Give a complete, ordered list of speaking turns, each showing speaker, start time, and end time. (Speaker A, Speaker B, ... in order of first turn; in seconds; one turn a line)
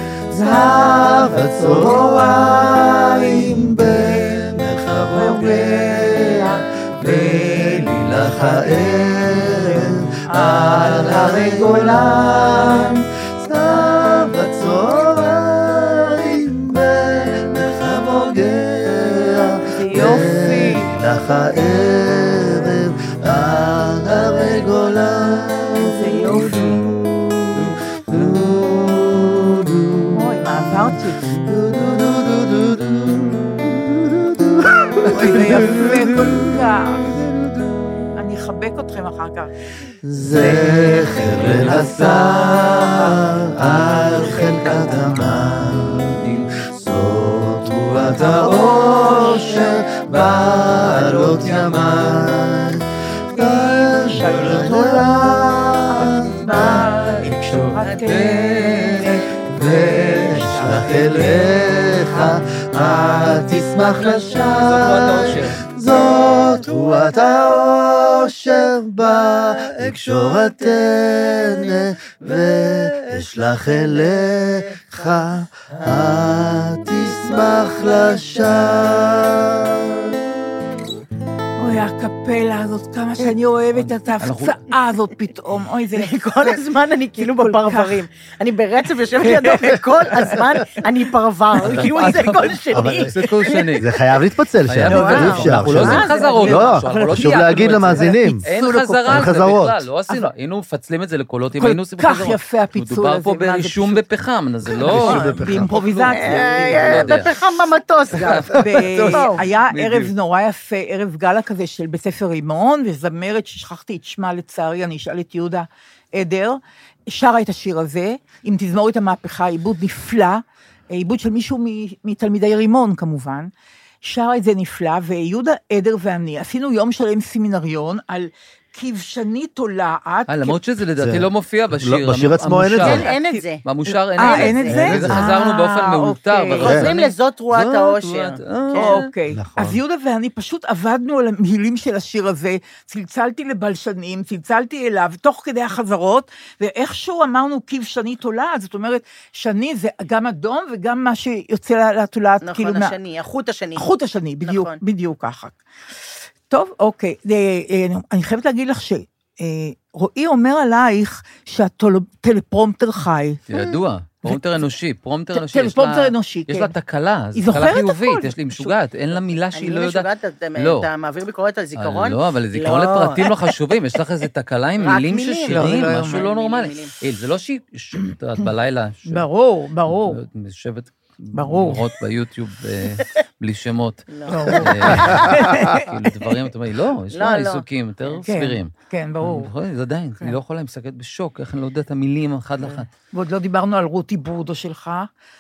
Speaker A: 0.3-6.4
Speaker B: 0.5-1.2
Speaker B: 5.1-7.8
Speaker A: 7.0-29.9
Speaker B: 10.2-13.0
Speaker B: 19.6-20.9
Speaker B: 25.8-26.8
Speaker B: 30.1-31.2
Speaker A: 31.4-36.4
Speaker B: 35.1-37.1
Speaker A: 37.2-37.9
Speaker B: 38.1-39.5
Speaker A: 40.0-52.8
Speaker B: 40.3-41.3
Speaker B: 44.3-44.9
Speaker B: 48.2-49.5
Speaker A: 53.3-56.7
Speaker B: 53.4-55.1
Speaker B: 56.1-61.0
Speaker C: 57.8-59.0
Speaker A: 59.5-79.8
Speaker C: 64.6-65.6
Speaker B: 81.6-86.6
Speaker C: 83.7-84.6
Speaker D: 85.9-93.7
Speaker B: 87.2-88.1
Speaker B: 89.2-89.8
Speaker C: 91.6-93.9
Speaker A: 92.7-93.1
Speaker A: 93.7-98.4
Speaker C: 94.7-107.3
Speaker D: 94.8-96.7
Speaker B: 94.9-99.5
Speaker A: 99.1-99.8
Speaker B: 101.6-104.0
Speaker A: 104.7-105.8
Speaker B: 104.8-107.2
Speaker D: 106.1-109.4
Speaker C: 108.1-110.1
Speaker B: 108.4-123.5
Speaker B: 124.0-130.6
Speaker C: 130.3-133.1
Speaker A: 131.0-133.1
Speaker D: 132.8-133.6
Speaker B: 133.0-136.8
Speaker C: 133.6-139.1
Speaker D: 134.2-134.9
Speaker A: 134.7-135.3
Speaker D: 136.6-139.0
Speaker B: 138.8-152.9
Speaker A: 139.3-139.8
Speaker D: 152.4-153.9
Speaker B: 153.8-155.6
Speaker D: 154.4-154.8
Speaker B: 156.5-163.4
Speaker C: 163.5-170.9
Speaker D: 163.5-163.8
Speaker B: 164.2-164.6
Speaker B: 165.3-166.7
Speaker B: 167.3-168.7
Speaker D: 169.5-173.5
Speaker C: 171.8-179.2
Speaker D: 174.8-176.9
Speaker B: 175.5-176.2
Speaker B: 179.1-180.2
Speaker C: 179.8-192.9
Speaker B: 181.3-181.8
Speaker D: 184.1-185.2
Speaker B: 184.3-186.3
Speaker D: 187.1-188.2
Speaker B: 188.2-189.5
Speaker B: 192.6-195.1